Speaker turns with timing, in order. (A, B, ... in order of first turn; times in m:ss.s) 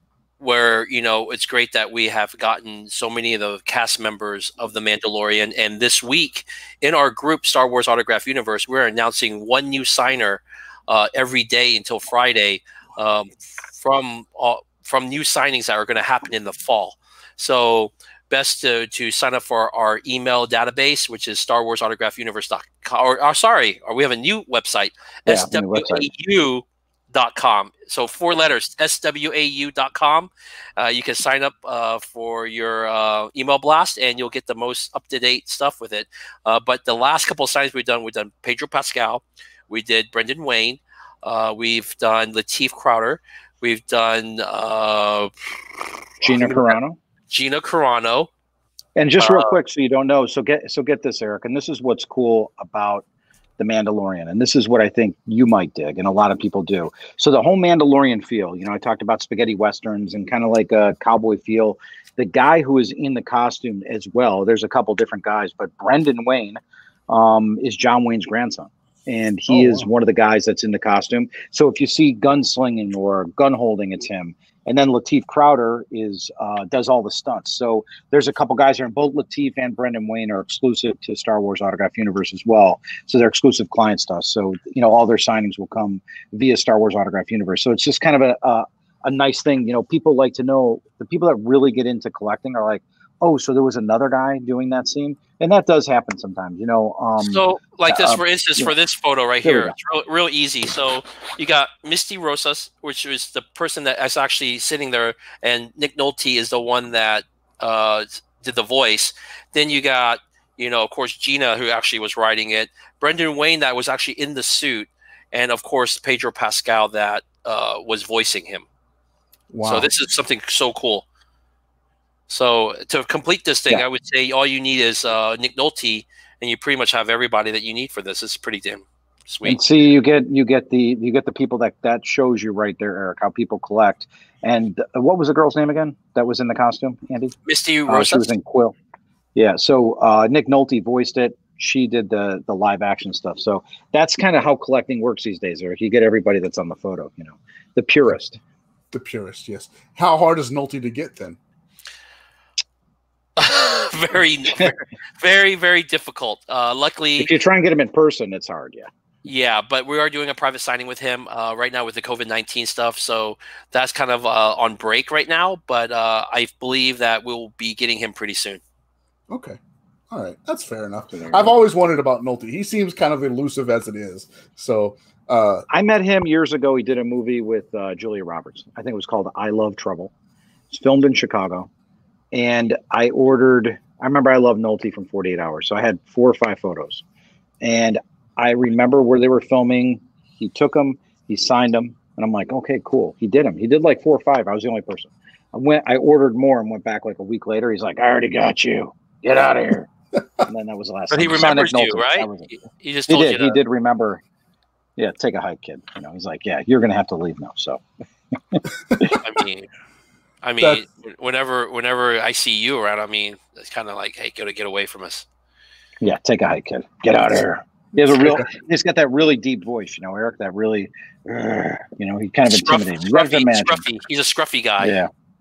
0:00.4-0:45.3 A
0:25.3-0:26.1 B
0:46.2-0:46.8 A
0:46.2-0:47.0 B
0:47.3-0:48.3 A
0:49.0-0:53.0 B
0:49.2-0:49.5 A
0:53.6-1:38.7 B
1:09.5-1:09.9 C
1:37.2-1:58.6 A
1:39.4-1:39.7 B
1:59.5-1:59.9 C
1:59.6-2:01.0 A
2:02.3-2:09.6 A
2:09.4-2:17.3 B
2:17.4-2:18.3 A
2:17.9-2:18.8 B
2:19.3-2:28.4 B
2:28.9-2:31.4 C
2:33.4-2:37.3 A
2:37.2-2:38.9 B
2:39.2-2:48.6 A
2:49.3-2:49.6 C
2:50.1-2:55.6 C
2:51.1-2:51.5 B
2:55.7-3:00.1 B
3:00.7-3:01.7 B
3:02.3-3:07.0 B
3:07.6-3:19.9 B
3:20.4-3:22.5 B
3:21.1-3:23.6 A
3:23.1-3:24.2 B
3:25.0-3:27.8 B
3:28.5-3:29.2 B
3:28.9-3:29.2 C
3:29.2-3:29.7 A
3:30.4-3:35.2 A
3:36.0-3:43.8 B
3:38.1-3:38.5 C
3:42.5-3:45.0 A
3:44.8-3:45.1 B